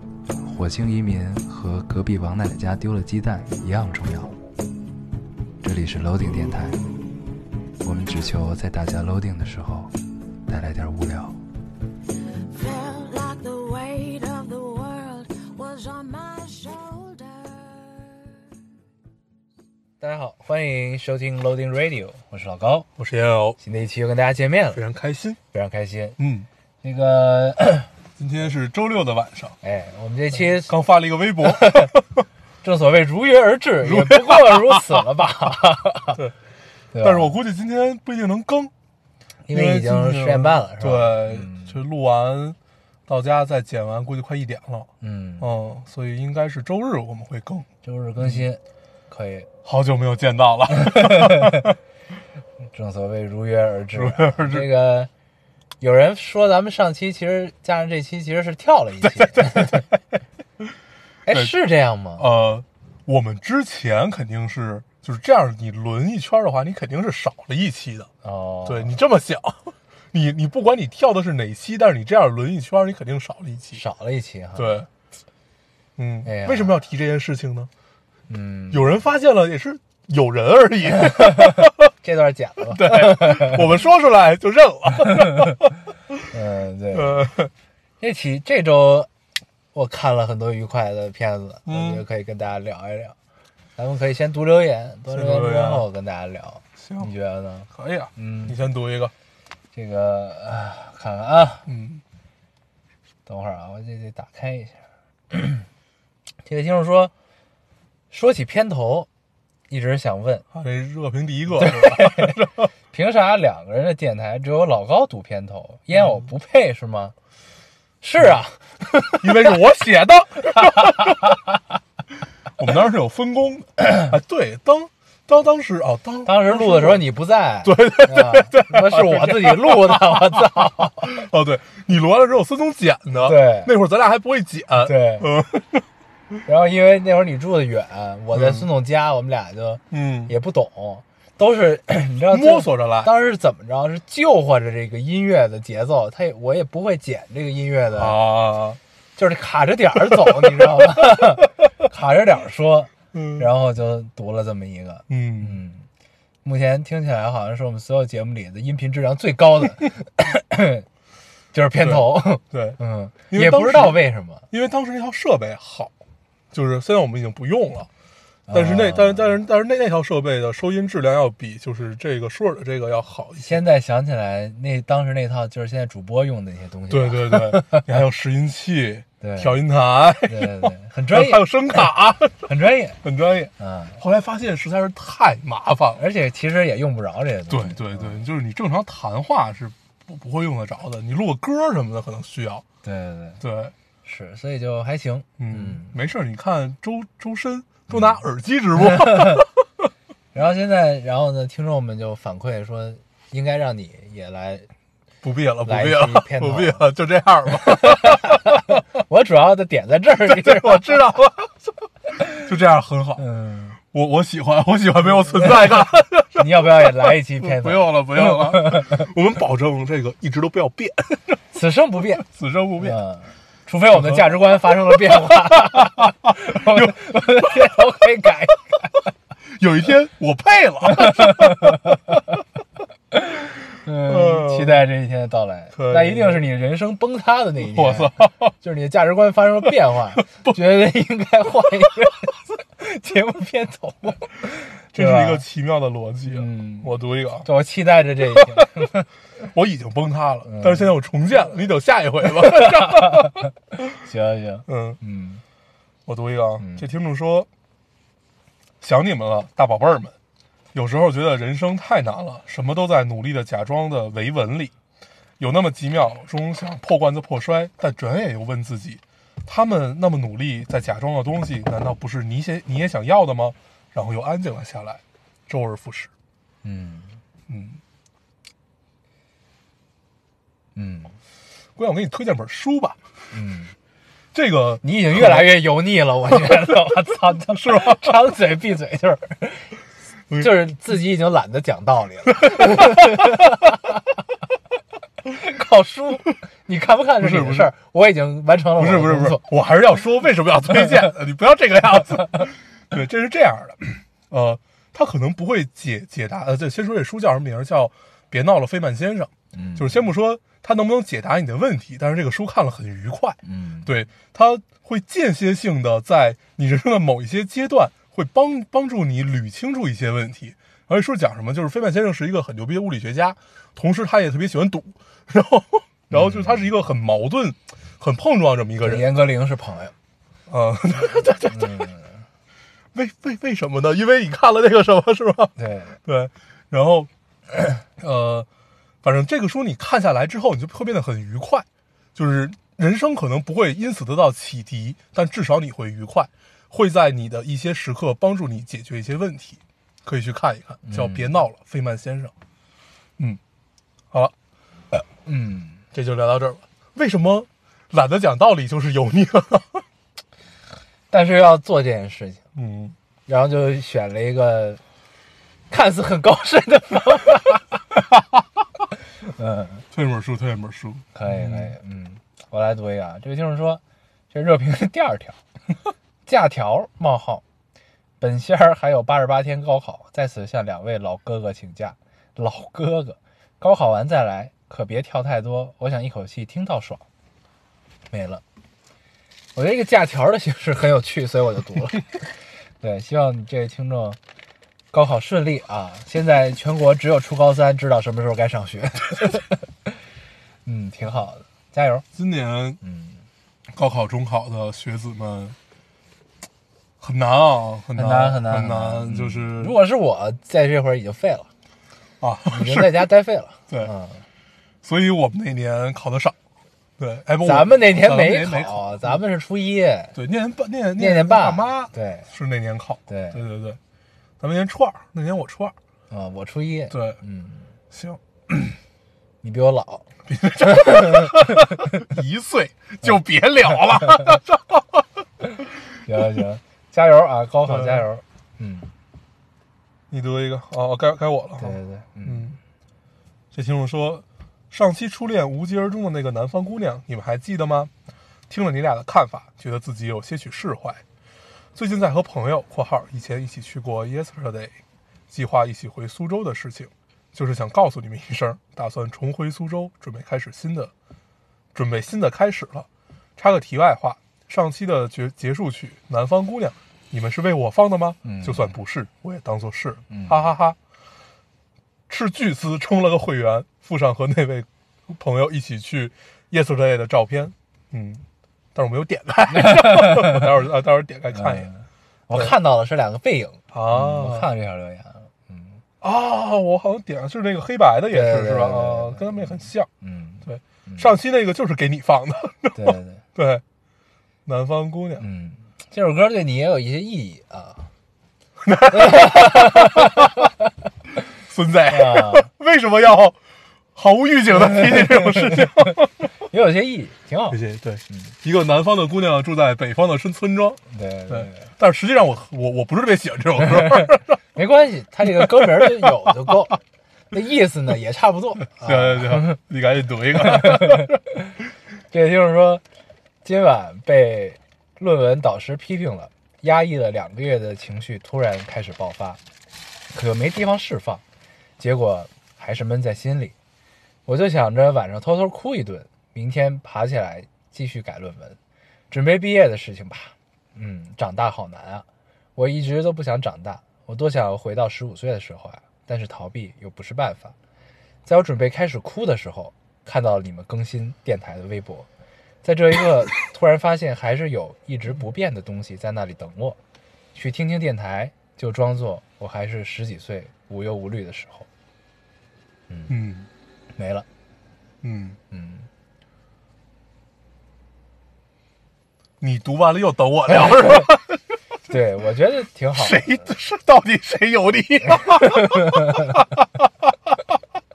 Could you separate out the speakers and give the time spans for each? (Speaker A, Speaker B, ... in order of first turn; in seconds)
Speaker A: 0.4-4.3, 5.6-6.9, 7.8-9.9, 10.5-11.4, 20.0-22.9, 23.6-24.8, 25.5-26.2, 26.8-27.9, 29.6-30.7, 31.4-31.9, 32.6-36.2, 36.9-37.4, 39.5-41.8, 45.0-45.5, 47.8-49.5, 50.7-51.7, 52.7-55.1, 55.8-59.9, 61.2-62.3, 68.2-69.0, 73.7-74.8, 76.2-76.8, 78.3-78.9, 81.2-83.6, 86.3-87.3, 88.0-89.1, 89.7-93.2, 93.8-98.6, 99.7-101.7, 103.2-104.8, 105.3-105.7, 106.4-107.1, 108.1-109.1, 109.7-110.4, 111.5-112.4, 112.9-117.1, 118.0-119.5, 120.6-121.1, 126.2-131.1, 133.2-133.7, 134.8-135.3, 136.4-148.2, 149.2-155.8, 156.4-160.9, 161.5-164.4, 168.5-169.4, 173.4-177.9, 179.2-179.6, 180.2-181.8, 182.4-183.0, 183.6-184.0, 186.0-188.2, 192.8-193.4, 194.0-195.9, 197.9-198.2, 198.8-199.4, 200.3-204.7, 205.6-206.8, 207.7-211.0, 213.2-213.8, 216.3-219.1, 221.5-222.2, 222.8-229.0, 231.1-232.0, 233.8-245.4, 246.3-249.1, 250.4-250.9, 252.4-253.4, 254.0-255.4, 256.6-256.8, 276.6-277.2, 280.7-281.2, 283.3-283.7, 284.8-289.8, 290.4-294.0, 295.3-299.4, 309.5-310.0, 313.4-313.9, 326.1-326.6, 328.8-329.9, 331.5-332.1, 335.6-336.0, 350.8-351.3, 355.2-355.8, 361.1-362.4, 363.3-364.8, 365.7-367.8, 369.2-369.8, 371.1-375.4, 376.2-377.4, 378.2-387.0, 388.1-388.4, 389.5-392.2, 392.8-394.2, 394.9-399.6, 400.6-402.0, 402.8-403.2, 407.9-411.5, 412.5-414.2, 417.4-420.1, 421.0-422.3, 423.1-423.4, 426.1-427.7, 429.4-430.1, 430.6-431.6, 436.0-438.9, 441.6-442.6, 468.2-468.7, 470.1-470.4, 479.5-480.5, 481.3-485.8, 488.1-491.1, 492.7-493.2, 495.2-497.9, 498.9-500.2, 501.9-502.5, 504.7-508.3, 510.9-511.7, 514.5-519.6, 520.4-521.5, 522.1-522.8, 523.4-529.4, 530.1-531.2, 531.8-533.5, 534.2-538.6, 539.1-547.5, 548.2-552.1, 552.6-556.8, 557.3-561.7, 562.9-563.2, 563.9-564.2, 565.5-565.9, 571.9-573.5, 575.6-576.2
Speaker B: 12.4-18.4
Speaker C: 23.0-23.6, 24.7-25.4, 26.2-26.5, 28.2-29.6, 30.6-32.2, 33.8-34.8, 37.0-38.7, 39.5-47.7, 48.2-48.4, 49.6-51.8, 53.9-54.7, 59.0-59.9, 61.3-61.5, 62.2-68.1, 68.7-73.8, 74.5-74.9, 76.0-77.7, 78.7-81.9, 82.7-86.2, 86.9-87.5, 91.7-92.0, 95.1-95.9, 96.8-97.1, 97.7-99.1, 101.7-102.0, 110.5-112.7, 119.2-121.2, 122.6-127.0, 127.6-130.4, 131.0-135.8, 138.3-138.7, 139.9-140.3, 142.3-143.1, 147.9-148.8, 153.1-153.5, 155.1-155.6, 161.8-162.8, 163.3-165.9, 166.5-167.9, 168.5-173.6, 176.9-182.5, 183.0-186.0, 187.5-192.6, 193.4-193.7, 195.4-199.5, 205.2-208.6, 210.2-211.7, 212.2-213.2, 213.9-216.7, 217.4-221.4, 222.2-223.0, 223.9-224.3, 224.9-227.7, 229.5-232.0, 234.1-234.8, 235.7-236.4, 237.6-238.5, 240.2-240.6, 244.9-247.5, 248.3-248.7, 249.4-254.0, 254.7-255.0, 256.1-257.5, 258.8-260.1, 260.7-264.7, 265.4-276.1, 277.5-277.8, 281.8-283.0, 284.3-285.5, 286.4-286.7, 287.5-288.1, 292.5-293.1, 297.2-297.7, 298.8-329.1, 330.5-331.9, 332.9-337.1, 337.9-338.5, 339.0-352.3, 355.9-359.8, 362.5-362.9, 369.9-371.7, 402.1-402.8, 403.7-405.6, 407.0-409.8, 412.2-413.1, 414.8-416.3, 417.0-419.2, 420.1-423.8, 424.4-425.7, 426.9-427.2, 427.9-428.5, 430.3-435.0, 437.7-438.0, 440.1-442.6, 443.5-447.9, 448.5-451.0, 451.7-454.8, 455.3-460.9, 461.7-470.8, 472.1-478.2, 478.7-481.7, 483.7-484.5, 486.0-489.9, 490.4-493.6, 494.4-495.2, 498.6-500.2, 501.4-503.4, 503.9-506.2, 507.5-514.4, 515.4-516.0, 518.8-521.1, 563.1-563.5, 565.0-565.4, 569.4-571.4, 572.9-577.3